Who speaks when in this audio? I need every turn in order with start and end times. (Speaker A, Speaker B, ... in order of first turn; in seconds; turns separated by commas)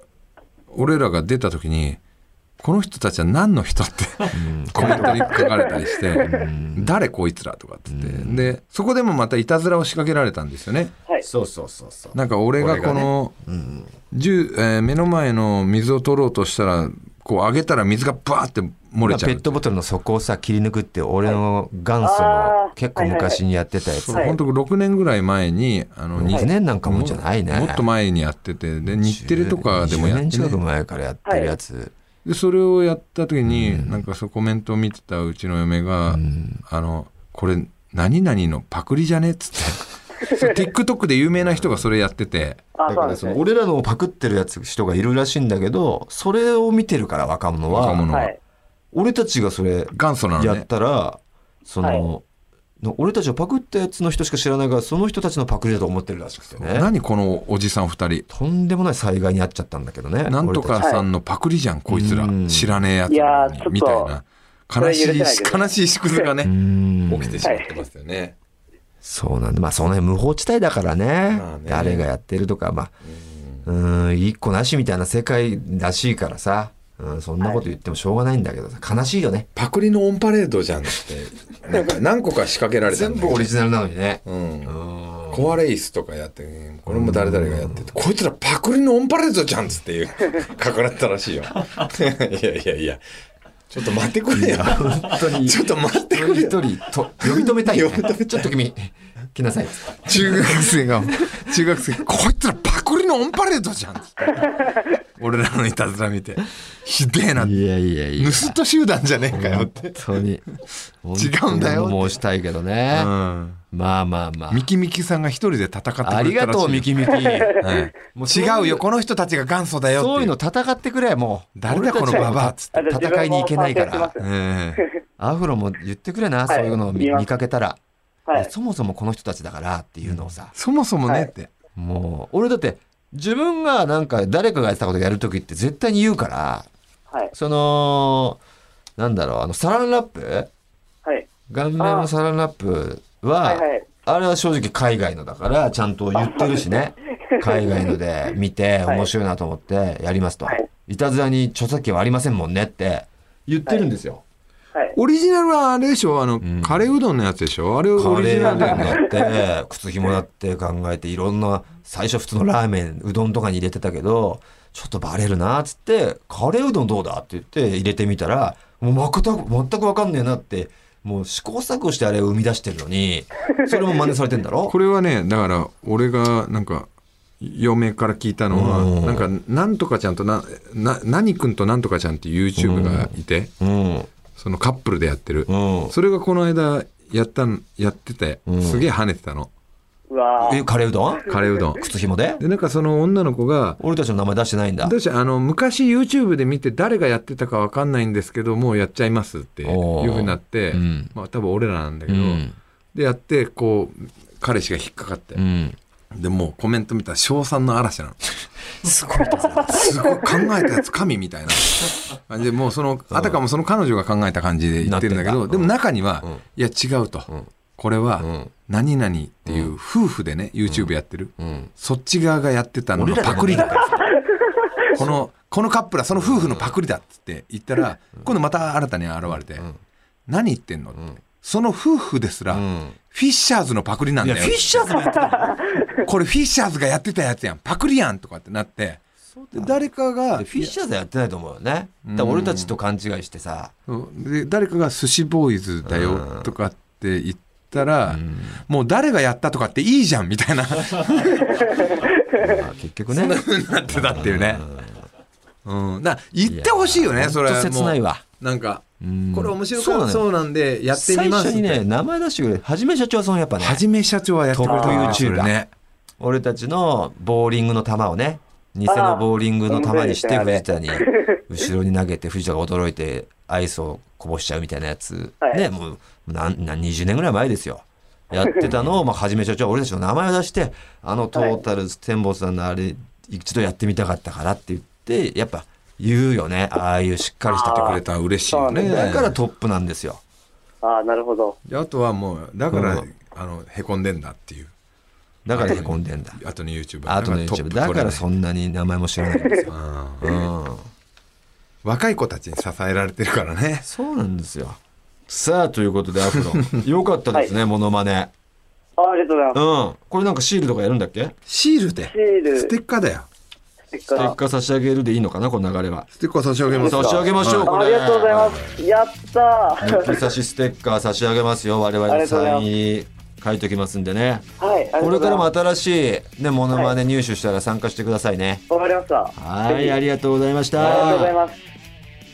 Speaker A: 0.7-2.0, Speaker A: 2.6-10.9, Speaker B: 4.3-5.4, Speaker C: 4.8-6.5, Speaker B: 6.2-6.9, Speaker B: 7.9-8.5, Speaker B: 11.2-13.9, Speaker A: 12.1-13.3, Speaker A: 14.1-19.6, Speaker B: 19.0-24.4, Speaker C: 22.0-23.4, Speaker A: 23.9-30.6, Speaker B: 26.1-27.9, Speaker B: 29.0-31.9, Speaker C: 31.2-31.5, Speaker A: 32.2-42.6, Speaker B: 33.5-34.0, Speaker B: 36.1-36.6, Speaker C: 40.2-40.6, Speaker C: 42.8-43.4, Speaker B: 42.9-48.0, Speaker A: 47.7-48.3, Speaker C: 48.1-48.4, Speaker B: 48.9-52.2, Speaker A: 49.9-50.6, Speaker B: 52.8-56.9, Speaker A: 56.6-58.2, Speaker B: 58.3-61.0, Speaker A: 60.3-66.5, Speaker B: 61.9-62.8, Speaker C: 63.1-64.1, Speaker C: 64.8-66.3, Speaker B: 66.4-67.4, Speaker A: 67.1-68.3, Speaker C: 67.4-67.7, Speaker B: 69.0-72.9, Speaker A: 71.3-72.1, Speaker A: 73.0-73.6, Speaker B: 73.6-79.5, Speaker A: 79.5-83.5, Speaker B: 82.8-85.5, Speaker A: 84.2-84.8, Speaker A: 85.3-93.0, Speaker B: 86.9-87.9, Speaker A: 93.7-98.5, Speaker B: 94.3-100.6, Speaker A: 100.0-107.6, Speaker B: 107.3-108.6, Speaker A: 108.2-110.1, Speaker B: 109.3-110.5, Speaker B: 111.0-113.1, Speaker A: 111.1-112.2, Speaker A: 112.9-113.6, Speaker B: 113.7-114.7, Speaker A: 114.5-120.3, Speaker B: 116.0-118.8, Speaker C: 117.1-117.8, Speaker B: 119.9-124.1, Speaker A: 121.6-122.9, Speaker C: 122.1-124.3, Speaker A: 124.2-124.8, Speaker B: 125.2-127.8, Speaker C: 126.5-127.2, Speaker B: 128.3-130.5, Speaker A: 130.1-131.5, Speaker B: 131.7-136.7, Speaker B: 137.3-138.4, Speaker B: 139.0-140.5, Speaker B: 141.5-154.2, Speaker C: 141.8-142.1, Speaker C: 143.4-143.9, Speaker C: 146.2-146.6, Speaker C: 147.4-147.9, Speaker A: 154.9-159.0, Speaker B: 156.4-156.9, Speaker B: 157.9-174.8, Speaker C: 158.4-159.3, Speaker C: 173.7-174.2, Speaker A: 174.7-176.9, Speaker A: 177.4-183.5, Speaker B: 178.5-179.3, Speaker B: 182.6-184.1, Speaker A: 184.3-189.5, Speaker B: 185.5-185.9, Speaker B: 188.5-188.9, Speaker C: 190.1-190.7, Speaker B: 190.4-192.4, Speaker A: 191.3-193.8, Speaker B: 193.8-194.9, Speaker A: 194.8-205.4, Speaker B: 199.6-201.1, Speaker B: 202.1-202.6, Speaker B: 205.3-205.8, Speaker A: 206.1-208.3, Speaker B: 208.8-210.1, Speaker A: 209.7-223.9, Speaker B: 213.1-213.4, Speaker B: 214.8-216.4, Speaker B: 218.2-218.5, Speaker B: 219.4-219.7, Speaker B: 220.7-221.7, Speaker B: 222.9-224.1, Speaker A: 224.9-229.7, Speaker B: 226.2-226.8, Speaker A: 230.3-234.8, Speaker B: 232.5-233.0, Speaker B: 234.2-235.7, Speaker C: 234.9-236.1, Speaker A: 236.0-240.7, Speaker B: 239.3-243.7, Speaker A: 242.0-242.7, Speaker A: 243.9-251.5, Speaker B: 245.8-246.5, Speaker B: 248.1-248.6, Speaker C: 251.4-252.5, Speaker B: 252.4-255.0, Speaker A: 253.1-254.7, Speaker A: 255.6-261.8, Speaker B: 256.4-258.2, Speaker B: 259.0-260.2, Speaker B: 260.9-263.8, Speaker A: 263.6-265.7, Speaker B: 264.5-265.5, Speaker C: 264.6-265.2, Speaker B: 266.2-288.0, Speaker C: 268.9-271.4, Speaker C: 281.3-281.6, Speaker C: 287.5-288.0, Speaker A: 287.6-289.3, Speaker C: 288.5-289.2, Speaker B: 288.8-290.2, Speaker C: 290.8-291.6, Speaker A: 291.6-294.7, Speaker B: 292.7-293.1, Speaker B: 295.4-296.4, Speaker A: 295.5-298.2, Speaker B: 297.1-300.9, Speaker C: 299.3-299.7, Speaker A: 299.7-300.3, Speaker A: 301.8-303.8, Speaker B: 303.8-308.3, Speaker C: 309.0-309.6, Speaker B: 309.5-311.4, Speaker A: 311.5-313.3, Speaker C: 312.1-312.7, Speaker C: 313.9-314.4, Speaker B: 314.1-316.1, Speaker A: 316.1-317.8, Speaker C: 316.7-320.2, Speaker B: 316.8-318.6, Speaker A: 318.4-318.7, Speaker B: 319.8-324.4, Speaker C: 322.1-322.6, Speaker C: 324.6-325.5, Speaker B: 325.0-328.6, Speaker C: 328.7-330.0, Speaker B: 329.4-331.4, Speaker C: 330.8-331.6, Speaker A: 330.9-331.2